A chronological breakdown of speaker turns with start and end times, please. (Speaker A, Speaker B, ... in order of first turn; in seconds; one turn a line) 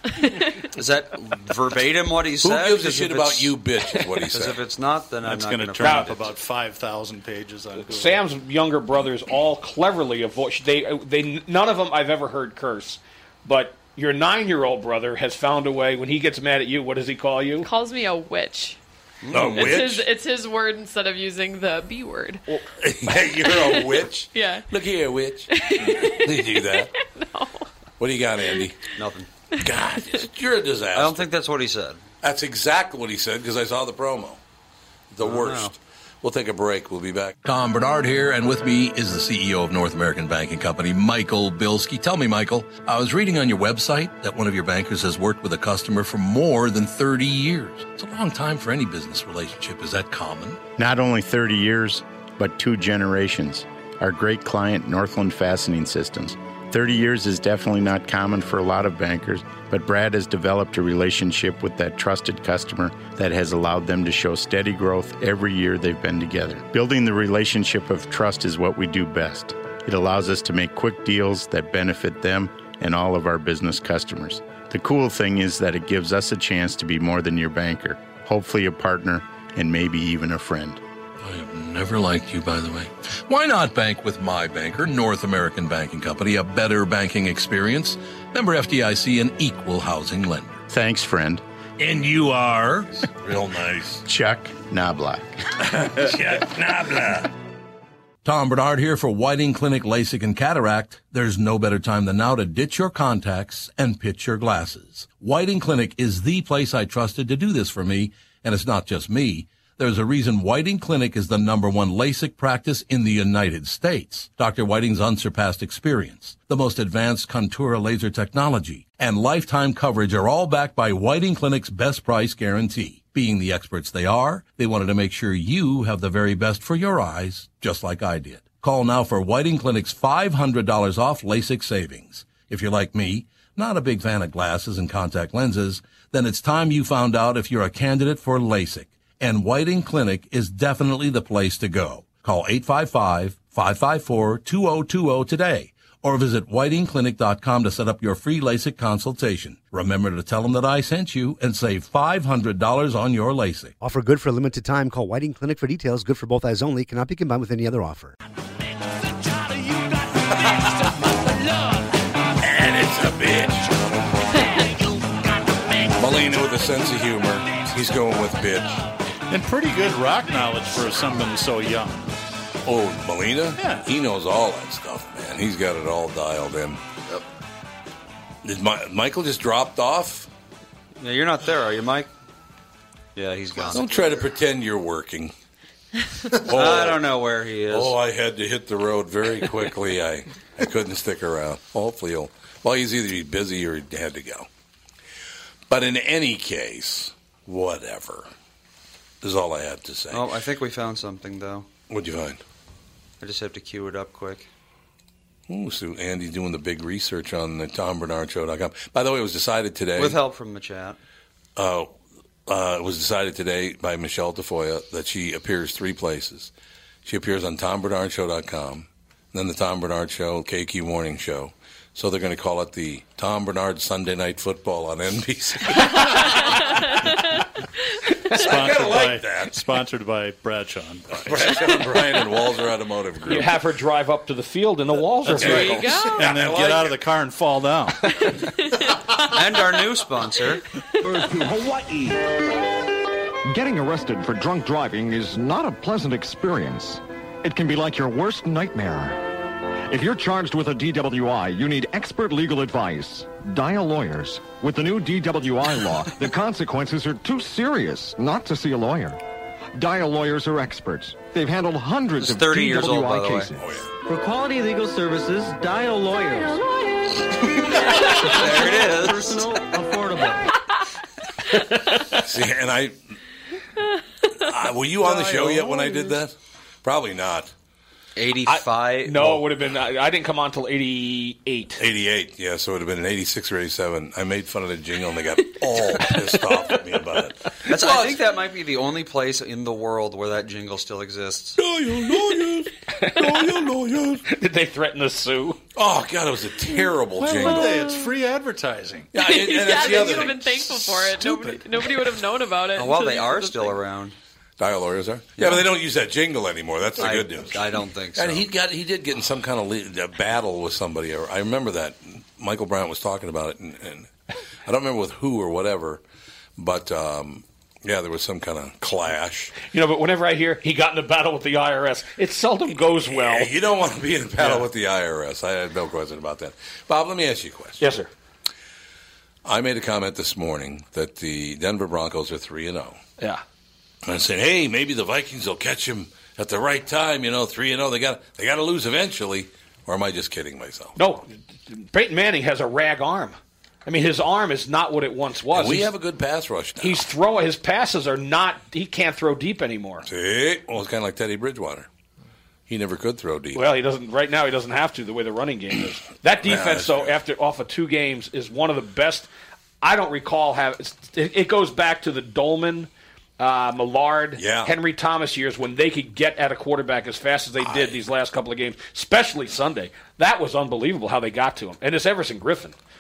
Speaker A: 0.1-0.6
Speaker B: 0.7-3.5
Speaker C: 2.4-4.6
Speaker B: 4.3-6.3
Speaker D: 5.2-8.2
Speaker E: 5.8-6.2
Speaker E: 7.8-17.7
Speaker A: 17.6-18.8
Speaker B: 19.2-19.8
Speaker C: 19.3-20.1
Speaker A: 19.5-22.5
Speaker C: 22.8-26.9
Speaker A: 23.2-24.6
Speaker A: 25.5-27.7
Speaker C: 28.0-28.8
Speaker B: 28.9-29.3
Speaker C: 29.6-31.3
Speaker B: 30.9-32.0
Speaker C: 32.2-34.4
Speaker C: 35.1-50.6
Speaker B: 35.2-35.7
Speaker F: 50.8-80.8
Speaker C: 81.2-90.6
Speaker F: 90.7-91.4
Speaker C: 91.8-94.0
Speaker F: 94.0-95.4
Speaker C: 95.6-97.3
Speaker C: 98.2-153.8
Speaker G: 153.8-158.2
Speaker C: 162.4-163.7
Speaker C: 165.8-168.8
Speaker D: 169.3-172.1
Speaker C: 172.6-176.8
Speaker D: 173.6-173.8
Speaker C: 178.4-180.3
Speaker B: 181.0-182.1
Speaker B: 183.1-183.9
Speaker C: 183.7-185.3
Speaker C: 186.3-187.0
Speaker B: 186.4-187.9
Speaker C: 187.7-194.5
Speaker C: 195.7-198.3
Speaker C: 199.2-200.2
Speaker B: 200.1-201.7
Speaker C: 201.9-202.4
Speaker B: 203.2-204.5
Speaker C: 205.5-210.2
Speaker B: 209.9-211.0
Speaker C: 211.6-211.9
Speaker C: 212.5-216.5
Speaker C: 217.0-227.1
Speaker A: 225.9-227.1
Speaker C: 228.3-229.5
Speaker D: 228.3-231.4
Speaker C: 231.1-233.6
Speaker E: 233.2-236.0
Speaker C: 235.3-237.0
Speaker D: 235.3-235.6
Speaker A: 235.4-236.4
Speaker D: 236.2-238.0
Speaker A: 238.4-239.2
Speaker B: 239.2-240.6
Speaker H: 241.0-242.1
Speaker I: 243.4-249.2
Speaker I: 249.9-259.2
Speaker I: 259.8-263.6
Speaker B: 262.2-263.5
Speaker C: 263.6-263.9
Speaker H: 264.0-266.6
Speaker H: 267.9-270.4
Speaker B: 268.1-269.4
Speaker C: 272.2-272.9
Speaker C: 274.4-277.5
Speaker E: 275.2-275.5
Speaker B: 278.1-279.4
Speaker E: 278.4-281.8
Speaker C: 281.8-288.2
Speaker B: 287.7-291.6
Speaker C: 291.6-294.2
Speaker E: 293.0-293.4
Speaker E: 294.2-295.6
Speaker C: 295.8-297.9
Speaker D: 297.1-299.1
Speaker A: 297.6-298.1
Speaker C: 299.1-301.2
Speaker A: 299.1-303.8
Speaker B: 302.8-304.1
Speaker C: 304.6-314.1
Speaker B: 307.0-308.5
Speaker C: 314.6-316.0
Speaker C: 316.6-319.6
Speaker E: 319.6-323.5
Speaker C: 323.0-327.9
Speaker E: 324.4-324.7
Speaker E: 327.8-328.1
Speaker C: 329.4-333.0
Speaker C: 334.0-341.0
Speaker E: 341.0-345.9
Speaker C: 345.5-347.1
Speaker E: 346.8-350.1
Speaker C: 350.0-351.9
Speaker C: 352.7-353.8
Speaker E: 353.5-359.3
Speaker C: 356.4-357.1
Speaker E: 359.8-372.8
Speaker C: 364.4-364.7
Speaker C: 367.6-367.9